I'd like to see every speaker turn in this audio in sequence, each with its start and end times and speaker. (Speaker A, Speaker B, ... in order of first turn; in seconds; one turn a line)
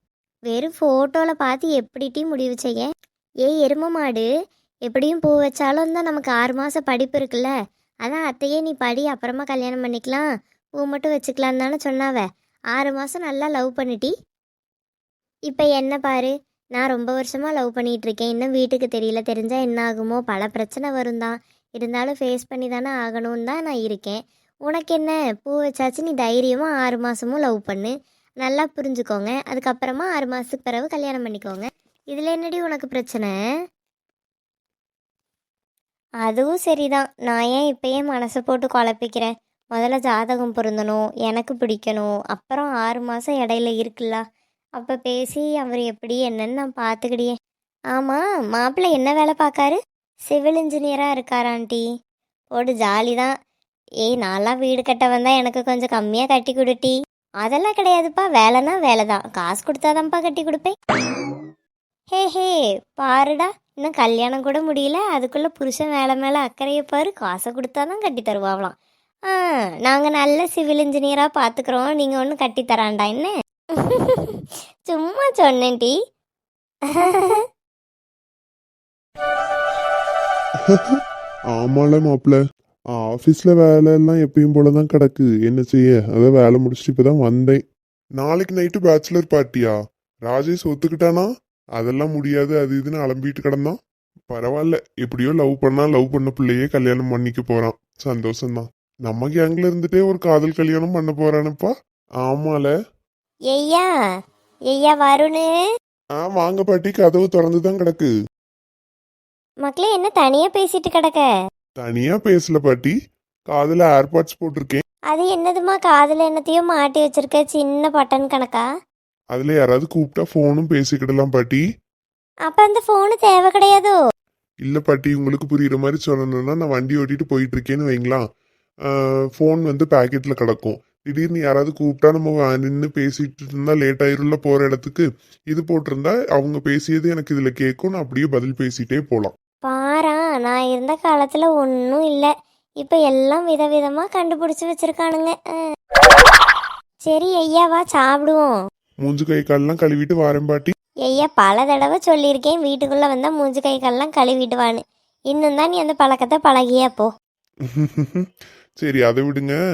Speaker A: 0.5-2.9
Speaker A: 3.4-4.3
Speaker A: 4.9-7.5
Speaker A: 8.0-10.3
Speaker A: 10.8-14.1
Speaker A: 15.5-33.3
Speaker A: 36.2-44.2
Speaker A: 44.8-47.3
Speaker A: 47.9-51.9
Speaker A: 52.5-53.3
Speaker A: 54.0-60.7
Speaker A: 62.1-68.8
Speaker A: 69.3-76.0
Speaker A: 76.9-77.5
Speaker B: 81.5-82.4
Speaker B: 83.0-87.6
Speaker B: 88.2-89.7
Speaker B: 90.3-93.7
Speaker B: 94.3-101.7
Speaker B: 102.2-102.7
Speaker A: 103.5-103.9
Speaker A: 104.7-105.5
Speaker B: 106.2-108.1
Speaker A: 109.6-111.3
Speaker B: 111.8-112.9
Speaker B: 113.5-114.8
Speaker A: 115.1-118.7
Speaker B: 119.3-121.6
Speaker A: 122.5-124.0
Speaker B: 124.7-128.2
Speaker B: 129.4-139.3
Speaker A: 139.6-142.3
Speaker A: 142.8-145.6
Speaker A: 147.1-148.6
Speaker B: 149.0-150.7
Speaker A: 151.1-154.8
Speaker A: 155.3-157.1
Speaker B: 157.8-158.3
Speaker B: 158.8-159.6